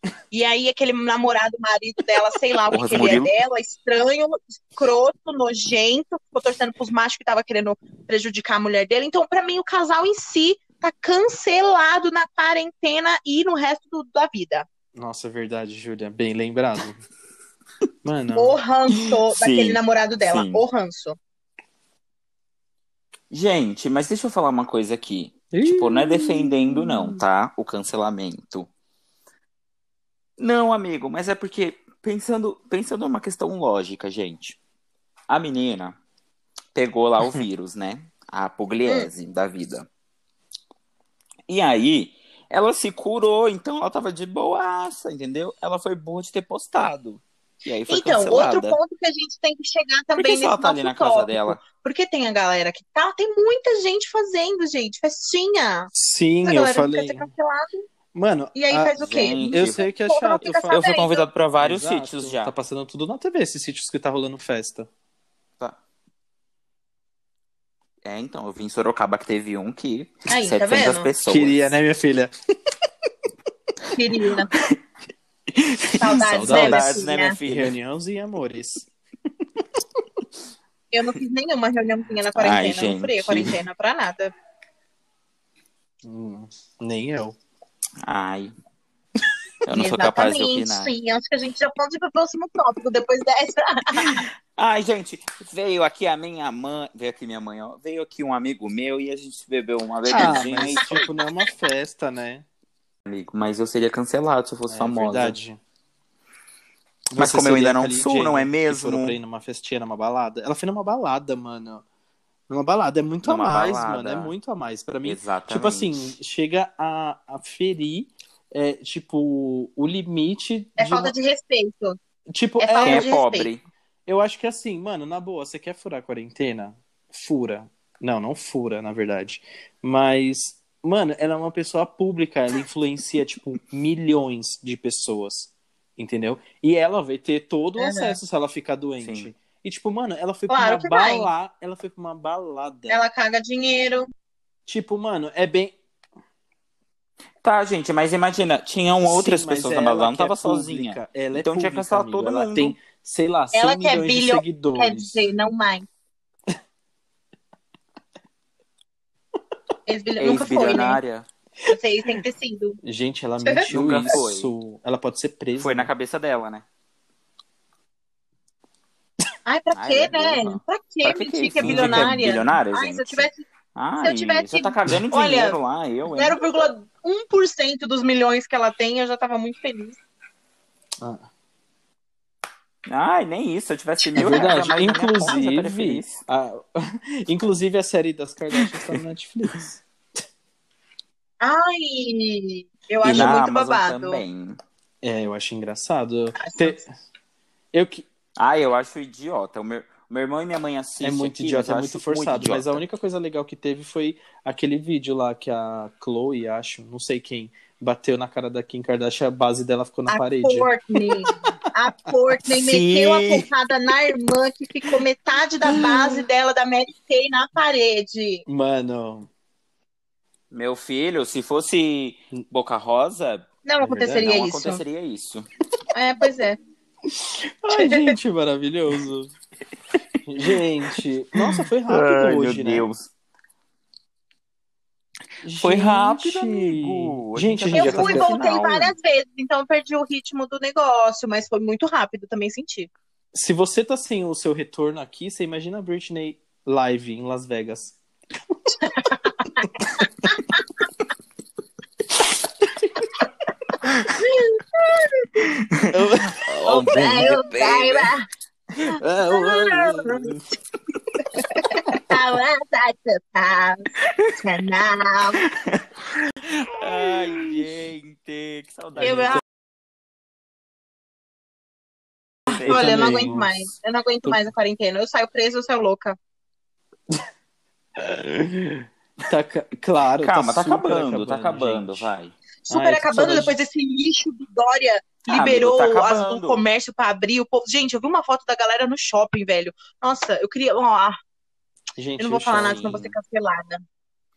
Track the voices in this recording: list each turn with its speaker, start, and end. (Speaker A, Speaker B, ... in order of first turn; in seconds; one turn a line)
Speaker A: 0.3-14.7
Speaker B: 2.7-3.3
Speaker C: 14.9-17.0
Speaker C: 18.0-18.6
Speaker A: 18.3-21.2
Speaker B: 19.3-20.6
Speaker B: 23.3-28.7
Speaker C: 25.5-27.2
Speaker B: 30.4-34.6
Speaker B: 35.3-36.0
Speaker B: 36.8-39.9
Speaker B: 41.5-48.8
Speaker A: 47.9-55.9
Speaker B: 50.2-51.6
Speaker C: 55.9-57.3
Speaker A: 56.4-57.9
Speaker C: 58.1-59.0
Speaker A: 58.5-61.2
Speaker B: 59.0-59.8
Speaker C: 59.5-60.9
Speaker B: 60.4-62.5
Speaker C: 61.6-64.9
Speaker B: 68.0-71.7
Speaker A: 70.3-71.1
Speaker C: 71.3-72.3
Speaker A: 73.9-74.5
Speaker B: 75.5-77.7
Speaker A: 76.0-77.4
Speaker C: 76.2-76.9
Speaker C: 77.5-78.9
Speaker A: 80.9-84.3
Speaker B: 82.4-83.6
Speaker C: 86.0-87.4
Speaker B: 88.0-88.5
Speaker B: 89.7-90.9
Speaker A: 89.7-94.2
Speaker B: 94.0-101.0
Speaker C: 100.1-102.5
Speaker A: 100.1-101.0
Speaker B: 103.1-105.4
Speaker C: 104.7-105.6
Speaker C: 107.1-111.8
Speaker B: 107.2-109.2
Speaker C: 112.5-121.1
Speaker B: 113.2-114.3
Speaker B: 115.0-116.0
Speaker A: 120.8-122.0
Speaker C: 122.3-123.1
Speaker A: 122.6-123.5
Speaker B: 122.8-123.6
Speaker C: 124.1-143.0
Speaker A: 137.8-138.2
Speaker B: 139.0-139.3
Speaker A: 140.5-141.3
Speaker A: 142.9-144.1
Speaker C: 144.7-145.8
Speaker B: 147.4-152.8
Speaker C: 149.1-155.2
Speaker A: 153.5-155.9
Speaker A: 159.9-161.0
Speaker B: 160.2-161.3
Speaker A: 161.7-162.8
Speaker C: 162.8-165.9
Speaker A: 163.4-164.2
Speaker B: 163.7-164.5
Speaker B: 165.6-166.7
Speaker A: 169.5-173.4
Speaker B: 169.7-176.4
Speaker C: 171.6-172.3
Speaker A: 174.0-175.6
Speaker A: 176.1-180.0
Speaker B: 182.9-186.2
Speaker C: 184.2-189.8
Speaker A: 184.2-184.5
Speaker B: 188.6-188.9
Speaker A: 191.4-194.2
Speaker B: 193.0-194.6
Speaker C: 195.0-196.9
Speaker A: 196.4-196.8
Speaker C: 197.7-198.1
Speaker B: 198.4-202.8
Speaker C: 201.0-211.6
Speaker A: 210.1-218.4
Speaker B: 212.5-213.5
Speaker C: 218.5-219.3
Speaker B: 220.5-223.5
Speaker A: 223.7-224.8
Speaker C: 223.8-224.3
Speaker B: 224.1-225.5
Speaker A: 225.9-226.6
Speaker C: 227.1-229.3
Speaker A: 227.8-228.2
Speaker C: 230.3-232.9
Speaker B: 231.4-233.1
Speaker C: 235.4-238.3
Speaker B: 235.6-238.9
Speaker A: 237.7-242.9
Speaker C: 243.3-248.0
Speaker A: 248.8-250.4
Speaker A: 254.2-255.5
Speaker B: 255.7-258.1
Speaker C: 256.0-256.3
Speaker A: 256.7-258.3
Speaker A: 258.9-260.4
Speaker C: 258.9-260.4
Speaker A: 261.4-265.4
Speaker C: 261.9-262.1
Speaker B: 265.5-269.4
Speaker C: 267.0-267.6
Speaker C: 269.0-269.3
Speaker A: 269.0-269.4
Speaker B: 272.5-273.4
Speaker A: 272.5-276.2
Speaker C: 272.5-273.5
Speaker C: 274.2-274.5
Speaker C: 278.0-282.1
Speaker B: 280.2-282.3
Speaker A: 282.7-291.2
Speaker C: 282.7-283.6
Speaker B: 285.3-286.6
Speaker C: 292.0-293.1
Speaker A: 292.2-293.8
Speaker B: 292.7-293.1